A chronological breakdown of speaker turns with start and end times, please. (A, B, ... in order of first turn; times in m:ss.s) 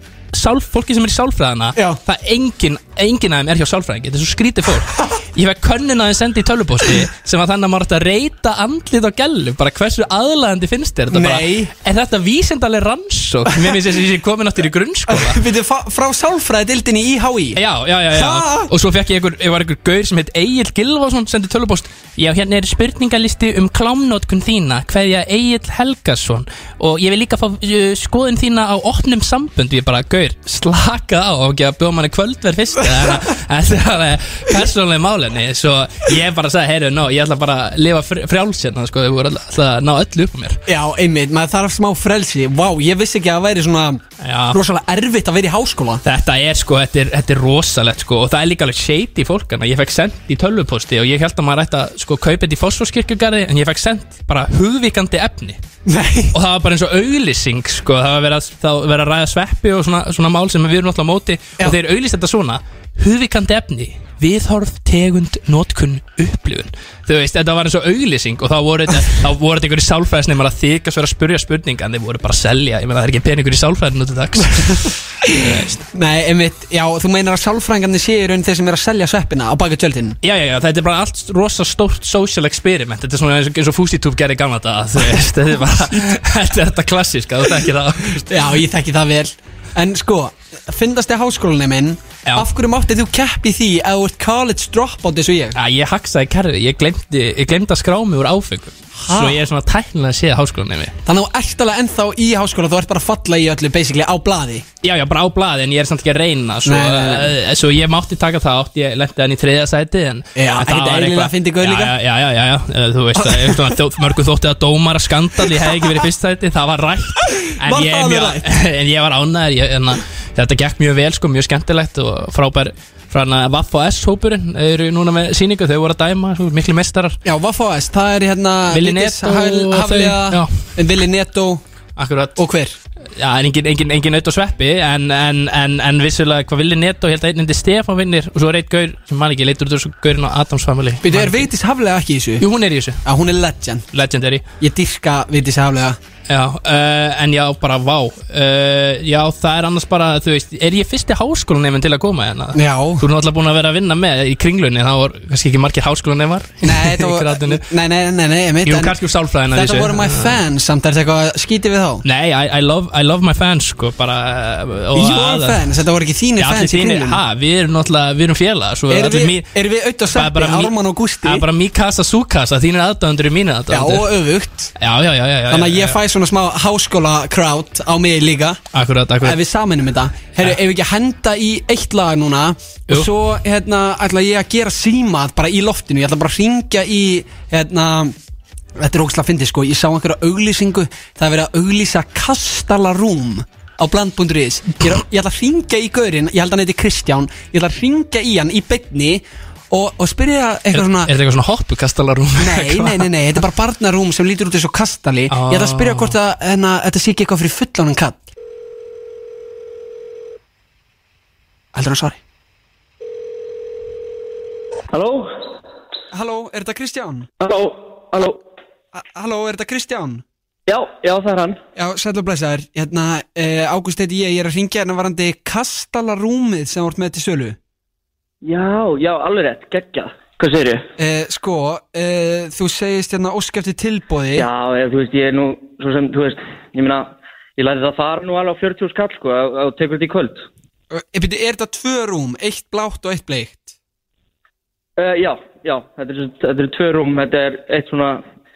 0:00.3-0:15.4 A
0:11.1-0:11.7 B
0:15.1-0:17.6 B
0:17.6-0:40.6 A
0:18.1-0:18.7 B
0:40.7-0:46.0 B
0:44.2-0:44.6 A
0:46.0-0:55.6 A
0:55.9-0:56.3 B
0:56.3-1:15.9 A
1:15.2-1:20.2 B
1:20.2-1:28.3 A
1:28.2-1:35.6 B
1:35.5-1:40.9 A
1:39.0-1:39.4 B
1:41.0-1:44.7 B
1:44.8-2:07.2 A
1:46.6-1:47.3 B
1:50.4-1:51.9 B
1:53.2-1:53.8 B
1:57.6-1:58.4 B
2:07.2-2:11.6 B
2:08.7-2:10.5 A
2:12.0-2:12.4 A
2:12.4-2:12.8 B
2:13.2-2:21.5 A
2:21.0-2:22.4 B
2:22.4-2:23.0 A
2:23.0-2:23.9 B
2:23.9-2:24.4 A
2:24.6-2:26.0 B
2:26.3-2:37.6 A
2:32.5-2:33.0 B
2:36.6-2:39.0 B
2:38.6-2:40.4 A
2:39.5-2:42.0 B
2:42.0-2:45.7 A
2:44.9-2:47.2 B
2:46.4-2:49.5 A
2:48.9-2:51.5 B
2:50.1-2:54.1 A
2:53.7-2:54.7 B
2:54.8-2:56.0 A
2:55.5-2:58.6 B
2:58.7-2:59.4 A
2:59.2-3:08.1 B
3:08.8-3:21.1 B
3:20.7-3:23.1 A
3:22.4-3:28.2 B
3:25.3-3:26.1 A
3:31.7-3:32.2 B
3:34.9-3:35.4 C
3:36.1-3:37.3 B
3:37.4-3:38.4 C
3:38.9-3:40.2 B
3:40.7-3:41.6 C
3:41.8-3:47.6 B
3:48.4-3:50.8 C
3:51.0-3:54.5 B
3:54.3-4:00.4 C
4:00.9-4:03.7 B
4:05.0-4:08.2 C